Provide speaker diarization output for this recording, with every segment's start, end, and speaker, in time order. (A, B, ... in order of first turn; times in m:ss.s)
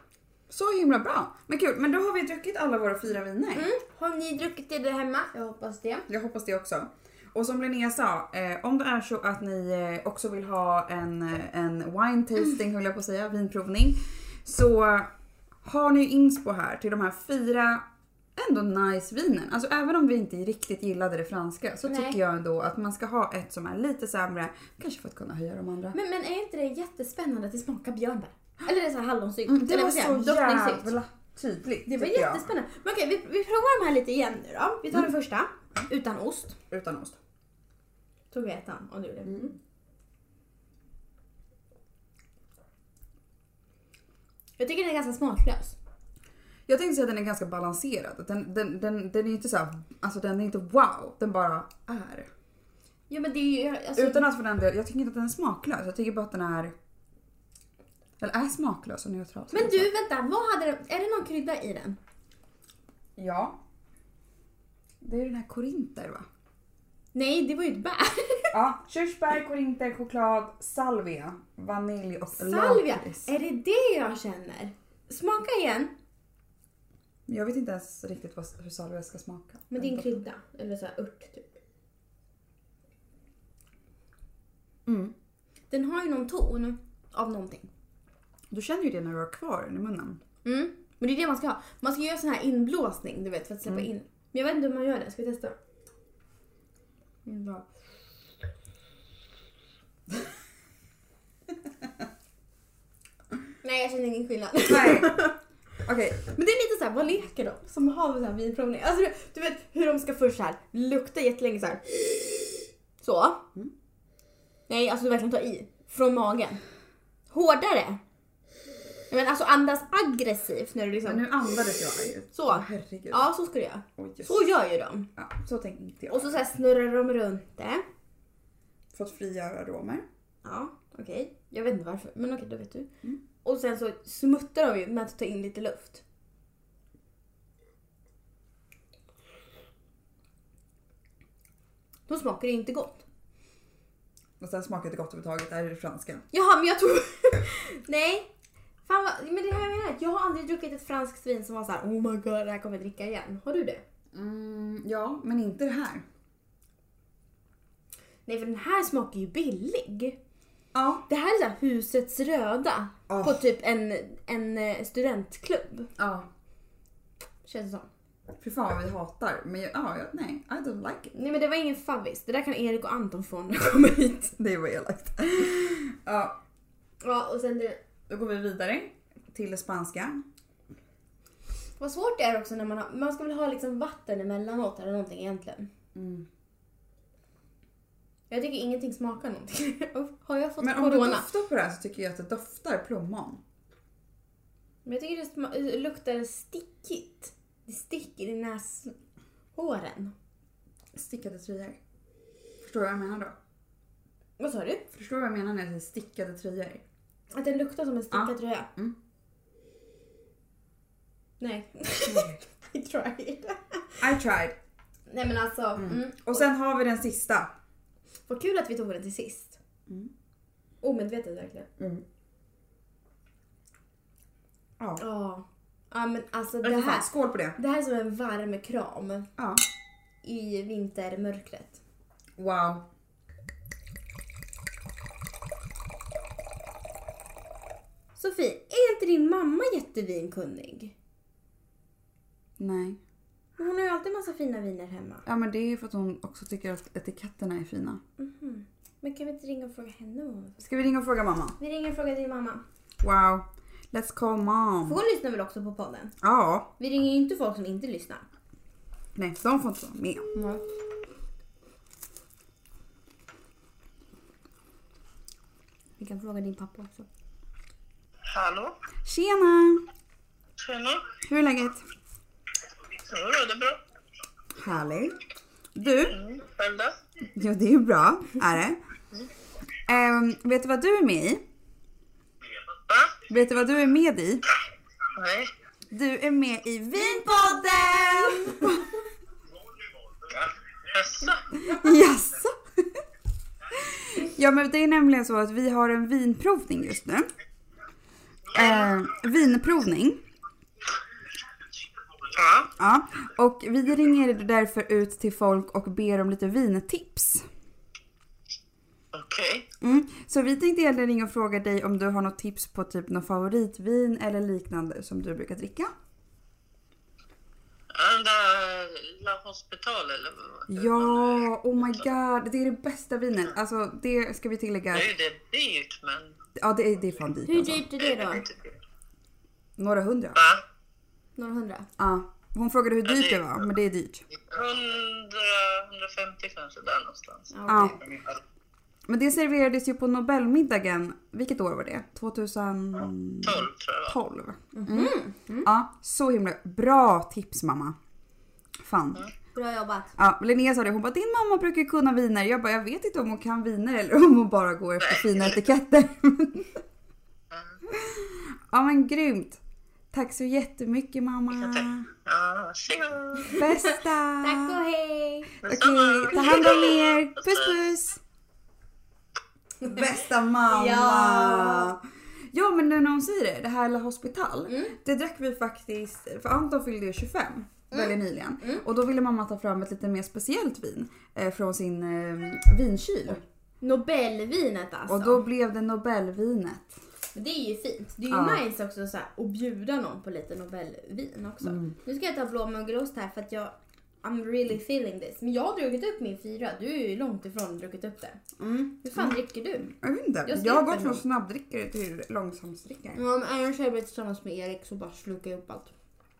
0:00.5-0:03.7 A
0:03.5-0:06.1 B
0:06.1-0:15.1 A
0:15.6-0:17.8 A
0:18.4-0:26.0 A
0:21.8-0:22.2 B
0:25.9-0:30.9 B
0:29.5-0:32.5 A
0:31.8-0:36.6 B
0:36.7-0:37.2 A
0:38.3-0:39.6 B
0:44.6-0:45.8 B
0:46.7-0:52.3 A
0:53.1-0:54.3 B
0:53.9-0:56.7 A
0:58.2-0:59.9 A
0:59.5-1:02.0 B
1:03.2-1:03.6 A
1:05.0-1:06.2 A
1:07.1-1:08.5 B
1:08.5-1:13.3 A
1:12.4-1:15.9 B
1:17.3-1:20.2 A
1:19.7-1:21.5 B
1:24.8-1:25.1 A
1:25.7-1:27.7 B
1:28.5-1:30.2 A
1:30.4-1:35.5 B
1:37.2-1:37.7 B
1:43.6-1:45.3 B
1:44.6-1:46.3 A
1:46.2-1:52.1 B
1:53.0-1:53.4 B
1:54.7-1:56.6 B
1:57.3-1:58.0 B
1:59.1-2:01.3 B
2:01.0-2:03.3 A
2:02.3-2:05.1 B
2:04.0-2:04.5 A
2:05.2-2:06.4 A
2:06.1-2:07.8 B
2:08.9-2:10.0 A
2:10.4-2:12.9 B
2:13.4-2:16.0 B
2:22.1-2:23.0 B
2:24.4-2:26.2 A
2:26.3-2:28.3 B
2:28.8-2:33.8 B
2:34.1-2:36.0 A
2:38.2-2:40.2 B
2:40.7-2:41.0 A
2:41.1-2:45.9 B
2:43.1-2:43.4 A
2:46.0-2:46.3 A
2:47.4-2:47.9 B
2:48.4-2:51.1 A
2:51.1-2:54.3 B
2:54.3-2:56.4 A
2:57.0-2:57.8 B
2:58.1-3:00.2 A
3:01.8-3:05.7 B
3:05.9-3:06.3 A
3:08.3-3:11.3 B
3:10.6-3:13.4 A
3:14.8-3:18.9 B
3:19.5-3:20.1 B
3:20.9-3:21.8 A
3:22.6-3:23.4 A
3:24.4-3:24.8 B
3:24.9-3:26.8 A
3:27.3-3:28.7 B
3:28.1-3:29.0 A
3:31.4-3:34.0 B
3:32.0-3:32.4 A
3:34.0-3:34.6 A
3:35.1-3:36.5 B
3:35.8-3:37.5 A
3:38.3-3:39.6 B
3:40.8-3:41.7 B
3:41.8-3:42.0 A
3:45.0-3:49.3 B
3:46.6-3:47.6 A
3:49.4-3:49.6 A
3:50.2-3:51.8 B
3:52.4-3:52.8 A
3:58.2-4:00.9 B
4:02.6-4:03.0 A
4:03.6-4:05.2 B
4:05.2-4:08.0 A
4:08.2-4:10.6 B
4:10.6-4:11.6 A
4:11.6-4:12.6 B
4:13.0-4:15.0 A
4:14.8-4:16.1 B
4:16.2-4:16.7 A
4:16.8-4:18.2 B
4:19.2-4:20.3 A
4:20.3-4:20.6 B
4:26.0-4:27.0 B
4:28.3-4:28.7 C
4:29.0-4:29.8 A
4:30.6-4:31.1 C
4:31.2-4:31.8 A
4:33.1-4:33.8 C
4:34.6-4:35.2 A
4:35.7-4:36.2 A
4:36.0-4:37.0 C
4:37.3-4:38.8 A
4:39.9-4:41.4 A
4:42.9-4:43.2 C
4:43.3-4:44.4 A
4:45.2-4:45.5 C
4:45.9-4:48.9 A
4:47.2-4:48.6 B
4:50.3-4:51.4 C
4:51.5-4:52.8 A
4:53.7-4:57.3 A
4:58.5-5:00.2 A
5:02.3-5:02.7 C
5:02.8-5:07.4 A
5:09.1-5:09.7 C
5:09.8-5:15.9 A
5:17.9-5:22.0 C
5:20.7-5:25.1 A
5:24.9-5:26.4 C
5:26.6-5:27.8 A
5:27.4-5:28.4 B
5:28.0-5:28.8 C
5:29.8-5:30.4 A
5:30.3-5:30.6 C
5:31.4-5:31.9 B
5:32.0-5:34.2 A
5:33.1-5:33.4 C
5:34.5-5:37.5 C
5:37.5-5:38.0 B
5:37.7-5:38.0 A
5:39.1-5:48.0 A
5:43.4-5:44.2 C
5:44.7-5:45.7 B
5:48.8-5:49.2 A
5:49.5-5:50.2 B
5:50.2-5:56.7 A
5:55.0-5:55.6 C
5:57.5-5:57.8 C
5:57.9-5:59.6 A
6:00.1-6:02.1 A
6:01.5-6:03.6 C
6:03.5-6:03.8 B
6:03.6-6:04.8 A
6:04.4-6:05.5 B
6:05.6-6:07.8 C
6:05.6-6:08.2 A
6:09.8-6:10.1 B
6:09.8-6:12.0 A
6:10.7-6:11.9 B
6:12.5-6:23.4 A
6:14.7-6:14.9 B
6:17.9-6:18.8 B
6:23.8-6:25.4 B
6:25.1-6:27.0 A
6:27.3-6:38.4 B
6:28.3-6:28.6 A
6:31.6-6:31.9 A
6:38.6-6:43.2 A
6:39.0-6:39.9 B
6:40.4-6:41.2 B
6:43.2-6:45.9 B